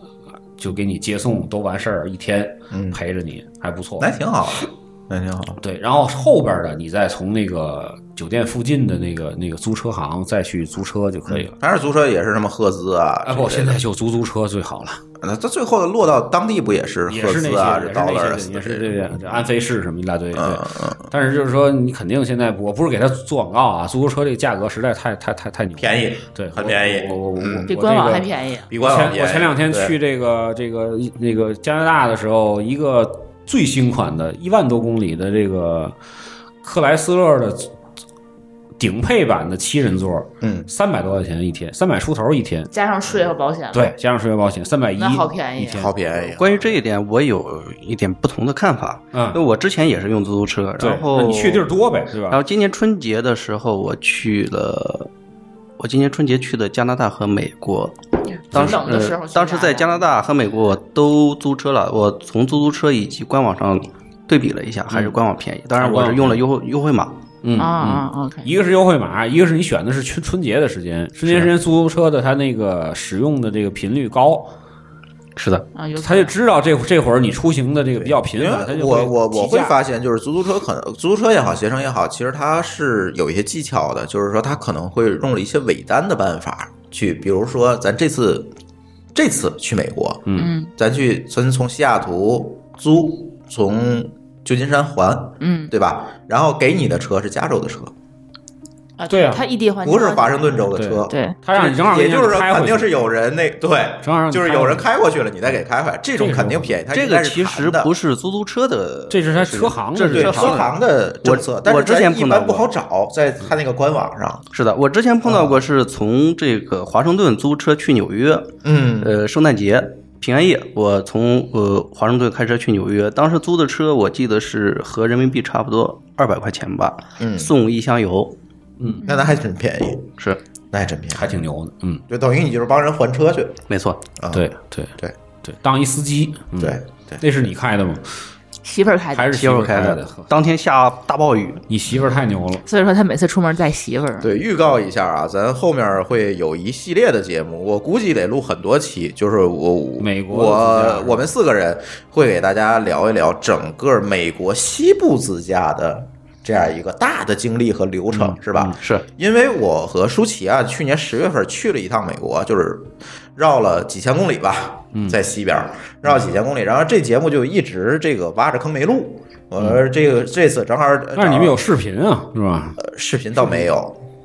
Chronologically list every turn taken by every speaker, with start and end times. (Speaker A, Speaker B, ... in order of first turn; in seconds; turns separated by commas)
Speaker A: 0.6-4.1, Speaker B: 2.7-3.0, Speaker B: 4.0-5.6, Speaker A: 5.6-11.5, Speaker B: 11.3-13.8, Speaker A: 13.2-15.0, Speaker B: 15.2-19.4, Speaker A: 17.1-35.9, Speaker B: 20.3-21.1, Speaker B: 25.8-27.7, Speaker C: 27.7-28.7, Speaker B: 28.7-29.9, Speaker A: 36.6-37.7, Speaker A: 38.8-42.7, Speaker B: 40.4-40.7, Speaker C: 42.7-43.9, Speaker A: 43.7-45.9, Speaker C: 45.0-45.9, Speaker B: 45.6-46.8, Speaker D: 46.3-51.7, Speaker A: 50.8-52.4, Speaker D: 52.3-55.1, Speaker D: 55.8-58.0, Speaker C: 58.5-60.0, Speaker D: 58.5-67.1, Speaker A: 65.7-66.4, Speaker A: 67.4-74.5, Speaker C: 67.6-68.5, Speaker D: 75.3-75.7, Speaker C: 75.7-76.3, Speaker A: 76.0-79.7, Speaker B: 78.0-88.5, Speaker B: 89.1-97.9, Speaker C: 90.4-90.7, Speaker C: 95.4-95.7, Speaker C: 99.0-101.3, Speaker A: 99.1-99.4, Speaker B: 99.8-107.9, Speaker A: 100.7-102.9, Speaker A: 104.0-104.9, Speaker A: 106.2-106.8, Speaker D: 106.9-112.7, Speaker A: 109.1-110.6, Speaker B: 110.1-114.4, Speaker D: 114.5-128.3, Speaker B: 115.2-115.5, Speaker B: 118.6-119.1, Speaker B: 127.2-127.5, Speaker C: 129.0-129.4, Speaker B: 129.0-130.1, Speaker B: 130.7-131.4, Speaker A: 131.1-132.0, Speaker B: 132.1-133.6, Speaker D: 133.7-134.0, Speaker B: 134.2-134.5, Speaker A: 134.3-134.9, Speaker A: 135.4-138.1, Speaker B: 136.6-137.2, Speaker C: 138.6-139.4, Speaker A: 139.1-140.3, Speaker D: 139.3-141.6, Speaker A: 141.7-142.6, Speaker C: 142.7-144.3, Speaker B: 144.2-171.6, Speaker A: 150.0-151.2, Speaker A: 158.1-158.8, Speaker A: 164.9-165.2, Speaker A: 171.1-172.8, Speaker B: 172.8-174.0